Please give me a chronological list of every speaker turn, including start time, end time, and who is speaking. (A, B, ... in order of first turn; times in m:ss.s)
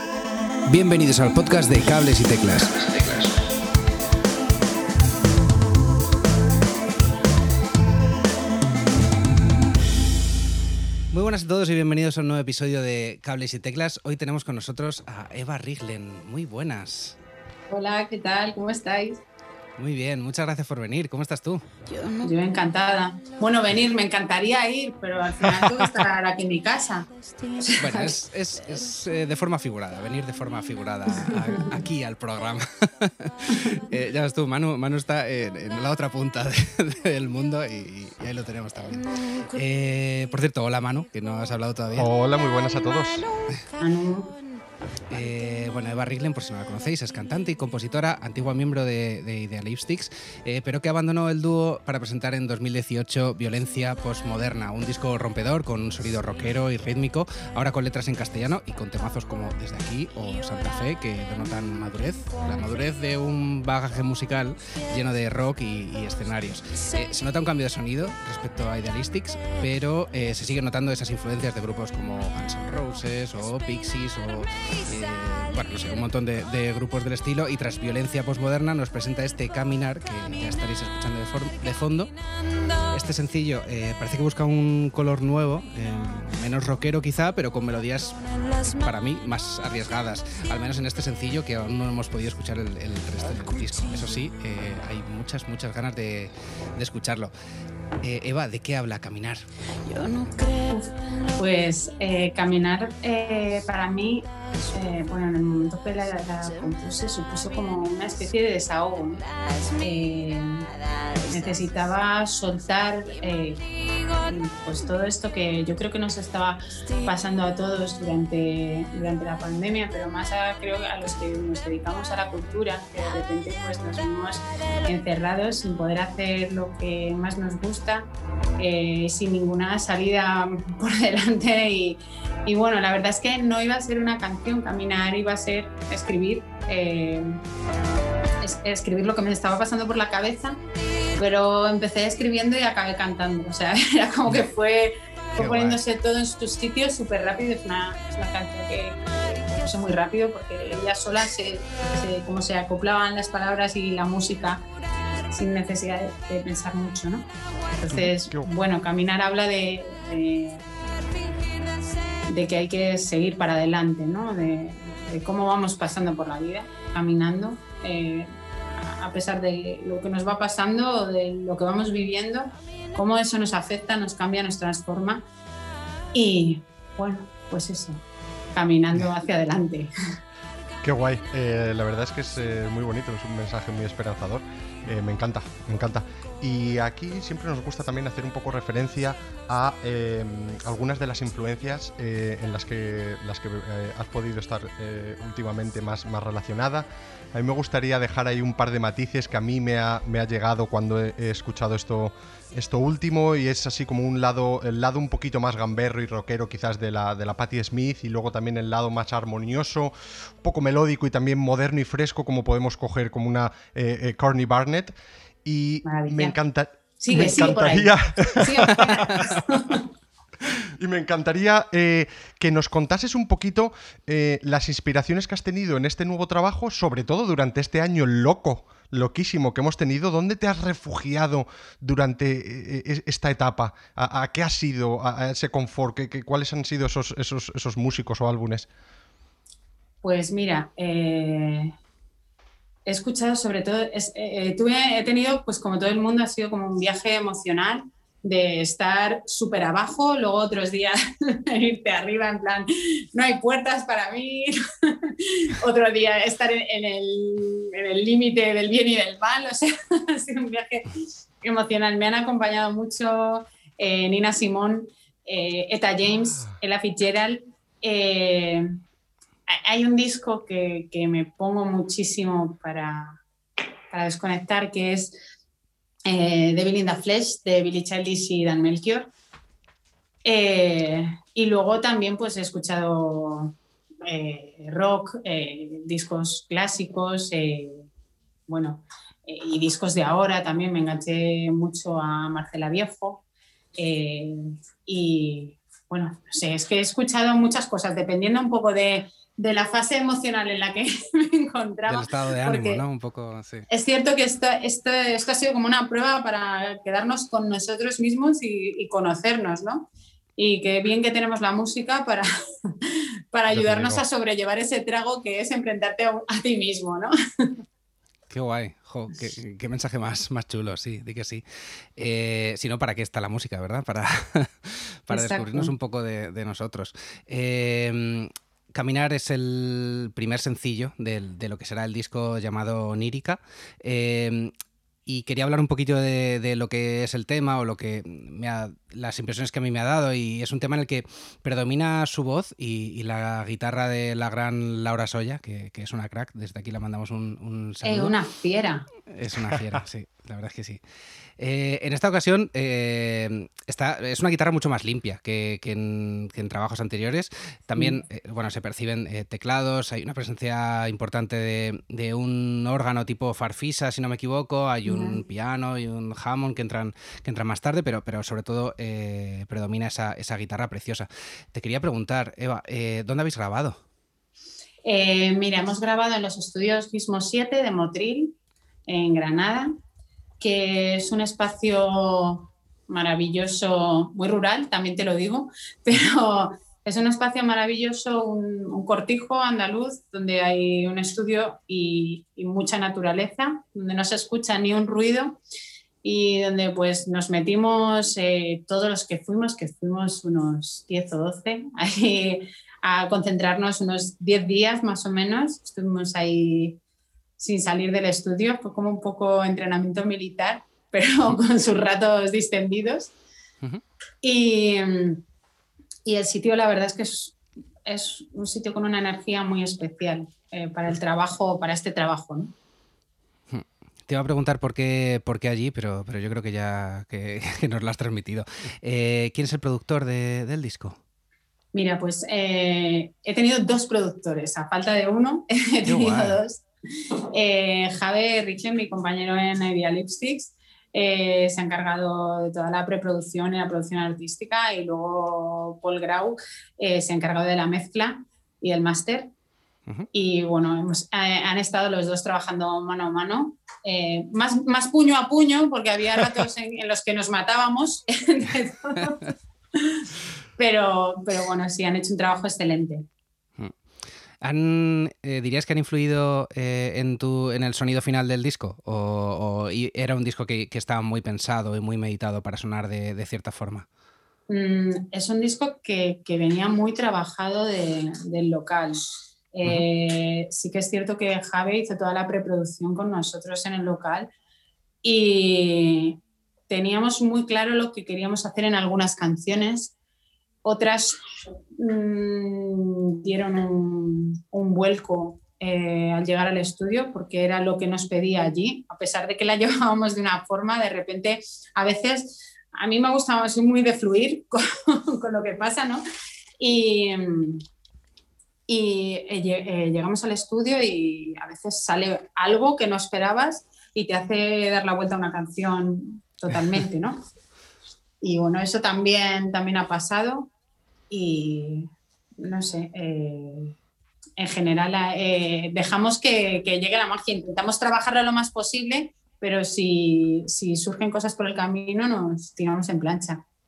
0:00.7-0:03.3 A
0:11.1-0:17.2 A
0:17.7-0:19.2 B
0:19.8-0:21.6 A
0:22.2-0:28.1 B
0:27.8-0:42.1 A
0:41.9-0:43.3 C
0:43.8-0:44.3 B
0:45.1-1:22.1 A
1:22.9-1:37.3 A
1:38.0-1:39.4 A
1:40.6-1:49.2 B
1:49.8-1:50.7 B
1:51.3-1:53.6 B
1:54.2-2:17.4 B
2:18.4-2:20.6 B
2:21.2-2:34.6 B
2:25.4-2:25.8 C
2:35.3-2:37.3 B
2:37.8-2:40.6 B
2:37.9-2:38.5 C
2:42.3-2:55.2 B
2:56.1-2:58.0 B
2:58.5-2:59.9 B
3:00.8-3:39.5 C
3:35.8-3:36.4 B
3:37.0-3:39.8 B
3:40.8-3:58.7 C
4:00.0-4:01.7 B
4:02.8-4:20.9 B
4:21.4-4:28.8 B
4:29.5-4:33.2 B
4:33.9-4:35.2 B
4:36.1-4:39.1 B
4:40.2-4:47.9 B
4:48.5-4:53.2 B
4:53.8-5:02.8 B
5:01.9-5:03.7 A
5:03.7-5:17.5 B
5:13.5-5:14.0 C
5:18.3-5:21.4 A
5:22.0-5:34.5 A
5:25.1-5:25.7 B
5:35.0-5:48.2 A
5:47.8-5:48.9 B
5:49.1-5:50.8 A
5:51.4-6:13.8 A
6:04.8-6:05.2 B
6:14.8-6:18.3 B
6:18.9-6:19.7 B
6:20.4-6:35.4 B
6:36.0-6:46.8 B
6:47.4-6:53.1 B
6:54.2-6:55.2 B
6:56.0-7:02.5 B
7:03.5-7:11.0 A
7:11.7-7:16.6 B
7:15.8-7:16.4 A
7:17.3-7:29.3 B
7:30.1-7:43.0 B
7:44.4-7:53.9 A
7:54.5-8:04.3 B
8:05.0-8:09.9 B
8:10.6-8:11.2 B
8:11.8-8:26.0 B
8:26.6-8:27.6 B
8:28.7-8:37.2 B
8:38.2-8:40.5 B
8:41.1-8:43.8 B
8:44.4-8:53.4 B